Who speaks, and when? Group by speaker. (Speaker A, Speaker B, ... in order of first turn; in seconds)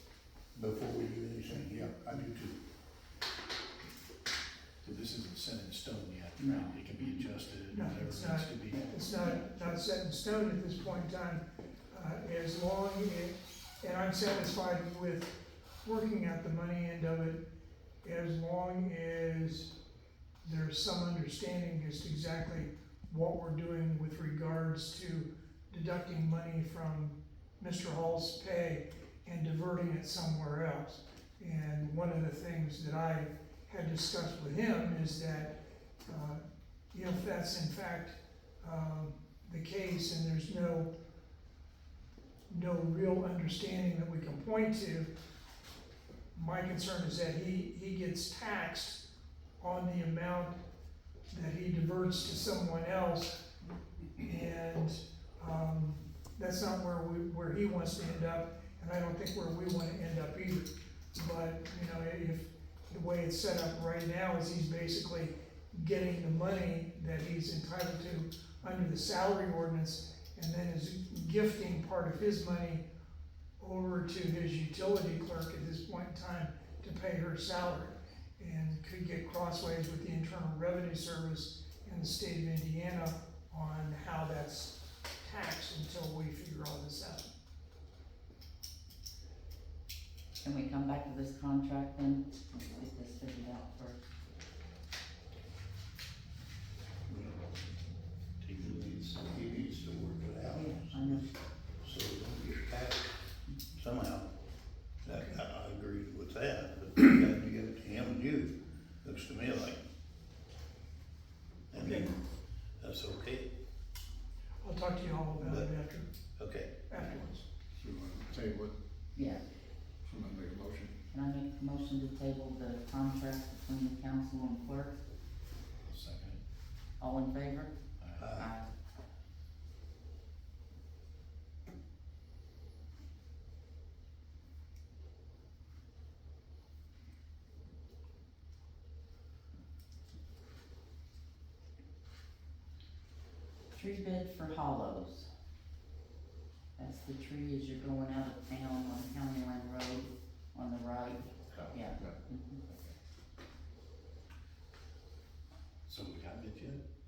Speaker A: 0.5-2.5, 97.1-97.5, 98.4-103.1, 103.7-104.3, 105.0-109.8, 111.7-112.2, 112.8-113.5, 115.3-115.7, 116.3-116.7, 128.2-128.5
Speaker B: 4.8-8.9, 125.9-126.4, 128.0-128.3, 152.7-153.0, 155.8-156.8
Speaker C: 6.4-7.2, 8.7-9.4, 90.4-94.0, 100.5-101.3, 119.1-119.4, 121.1-125.0, 127.0-127.8, 128.3-128.7, 143.7-145.3, 146.8-152.6
Speaker D: 7.7-17.4, 18.0-19.7, 20.4-40.9, 42.5-45.1, 46.3-49.0, 49.6-50.6, 51.3-53.4, 54.2-72.8, 73.6-87.3, 111.8-112.1, 114.6-116.0, 116.9-117.4
Speaker E: 117.7-118.8, 120.0-120.9